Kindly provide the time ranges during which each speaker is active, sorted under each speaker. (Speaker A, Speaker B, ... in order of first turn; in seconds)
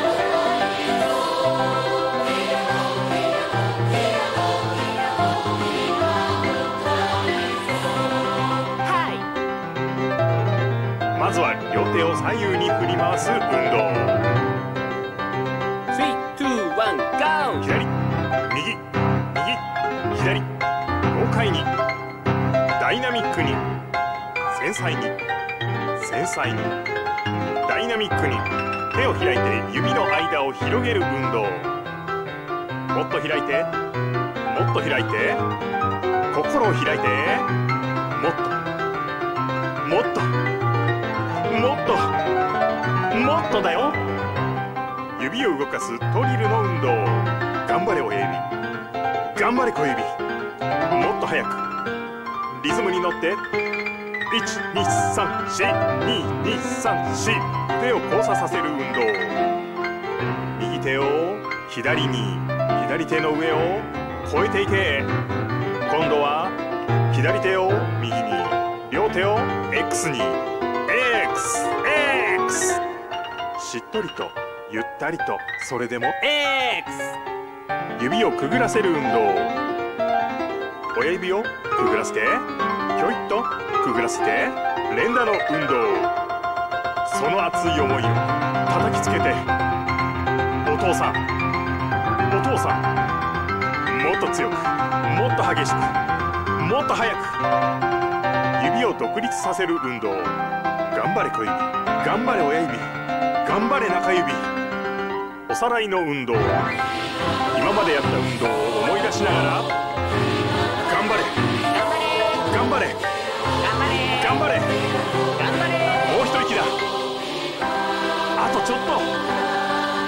Speaker A: 8.8-9.3, 15.9-17.7, 76.4-77.1, 111.7-112.5, 113.6-114.4, 115.3-116.2
Speaker B: 11.1-14.2, 17.6-17.9, 18.4-20.5, 21.1-21.7, 22.8-23.6, 24.5-25.2, 25.9-26.8, 27.6-31.7, 32.9-33.7, 34.5-35.4, 36.3-37.5, 38.1-38.6, 39.8-40.3, 41.4-42.2, 43.1-44.0, 45.1-48.5, 49.3-50.2, 50.9-51.7, 52.5-53.4, 54.3-59.4, 60.5-65.1, 65.8-72.8, 73.5-76.6, 78.0-79.6, 80.9-86.1, 87.0-89.5, 90.6-91.2, 92.3-92.9, 93.8-96.0, 96.5-97.4, 98.5-102.9, 103.4-104.5, 105.5-106.6, 107.5-109.7, 110.8-111.4, 112.4-113.0, 114.2-114.7, 116.0-116.8, 118.3-119.1